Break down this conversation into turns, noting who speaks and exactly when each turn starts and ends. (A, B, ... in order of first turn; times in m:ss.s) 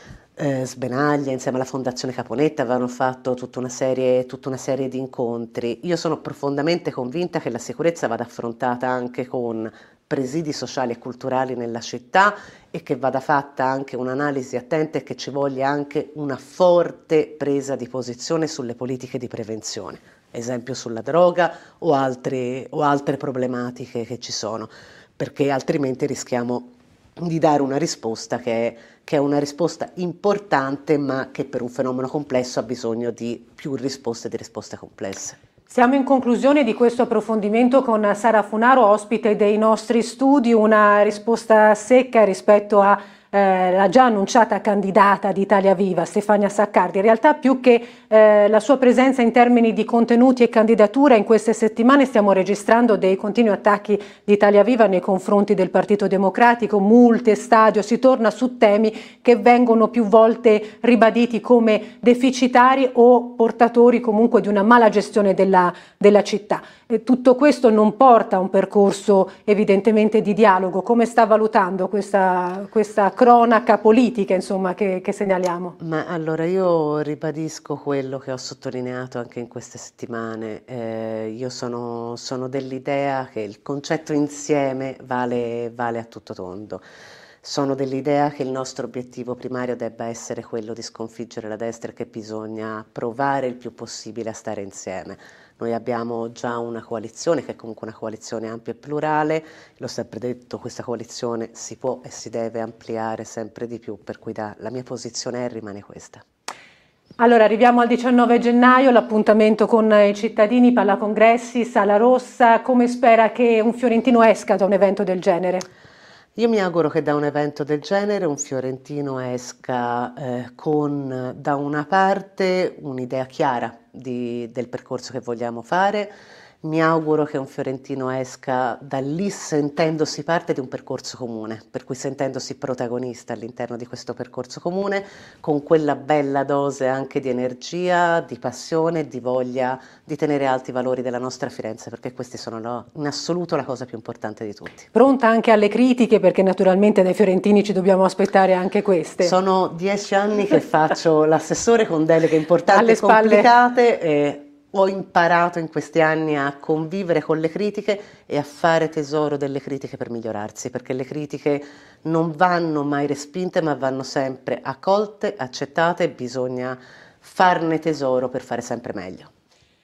0:00.4-0:35.4 A
0:35.7-1:15.8 B
1:15.8-1:26.8 A
1:27.4-1:46.2 A
1:47.2-1:55.6 B
1:56.4-2:06.1 A
2:06.6-2:24.9 A
2:24.9-2:29.3 B
2:29.2-2:49.3 A
2:32.7-2:33.5 B